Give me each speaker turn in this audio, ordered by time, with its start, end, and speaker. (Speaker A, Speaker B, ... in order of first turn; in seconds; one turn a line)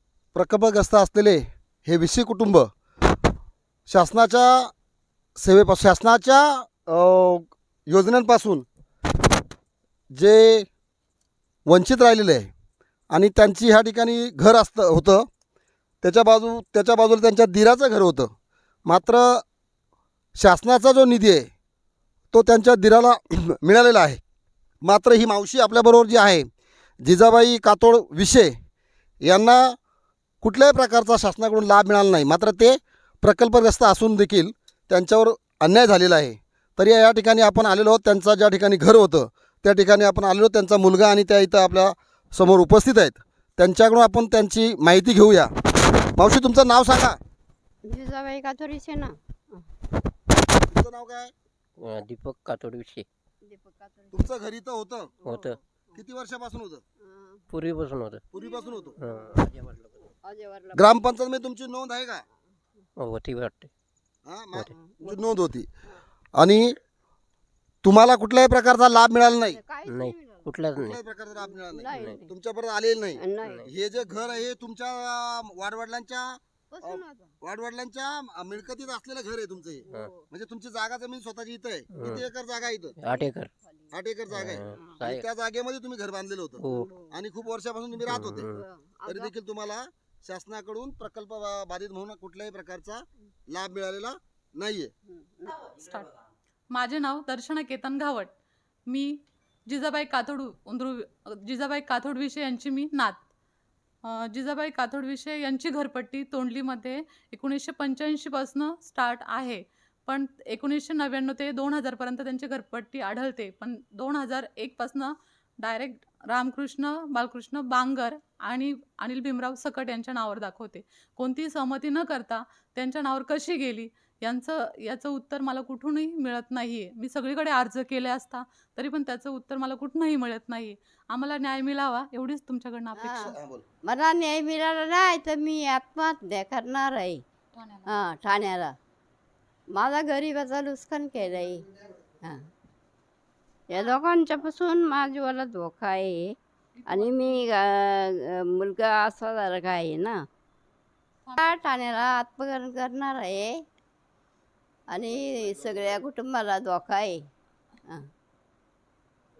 Speaker A: 0.3-2.7
Speaker A: 3.9-4.7
Speaker A: 5.4-8.7
Speaker A: 10.1-10.7
Speaker A: 11.7-12.5
Speaker A: 13.1-15.3
Speaker A: 16.0-18.3
Speaker A: 18.9-19.4
Speaker A: 20.4-21.5
Speaker A: 22.3-24.2
Speaker A: 24.8-26.5
Speaker A: 27.0-28.6
Speaker A: 29.2-29.8
Speaker A: 30.4-47.2
Speaker B: 47.8-49.6
Speaker A: 50.6-51.3
Speaker C: 51.8-53.0
Speaker B: 53.4-54.3
Speaker A: 54.1-55.1
Speaker C: 55.2-55.6
Speaker B: 55.2-56.0
Speaker A: 55.9-56.8
Speaker B: 57.0-57.5
Speaker C: 57.5-58.2
Speaker A: 58.3-59.0
Speaker B: 58.4-59.2
Speaker C: 59.0-60.1
Speaker B: 60.2-61.0
Speaker A: 60.7-62.2
Speaker C: 63.0-63.7
Speaker A: 64.2-65.7
Speaker B: 64.7-65.3
Speaker A: 66.4-66.8
Speaker A: 67.8-69.6
Speaker B: 69.4-70.6
Speaker C: 69.9-71.0
Speaker A: 70.8-83.0
Speaker B: 71.3-72.3
Speaker C: 71.9-72.2
Speaker B: 73.2-73.7
Speaker B: 76.7-77.3
Speaker B: 79.8-80.3
Speaker C: 81.9-82.2
Speaker C: 83.0-83.5
Speaker B: 83.0-84.0
Speaker A: 83.9-88.5
Speaker C: 84.3-85.2
Speaker B: 84.7-85.0
Speaker C: 86.6-86.9
Speaker B: 86.6-87.2
Speaker C: 88.0-88.6
Speaker B: 88.5-89.3
Speaker A: 89.0-94.9
Speaker B: 95.1-95.7
Speaker D: 95.7-98.3
Speaker D: 98.9-99.2
Speaker D: 99.7-103.2
Speaker D: 104.0-133.3
Speaker B: 132.9-137.2
Speaker A: 133.2-133.6
Speaker D: 137.5-137.9
Speaker B: 137.9-138.8
Speaker B: 139.7-141.7
Speaker B: 143.7-146.3
Speaker D: 146.7-147.4
Speaker B: 146.9-150.2
Speaker B: 151.4-153.6
Speaker B: 154.9-157.3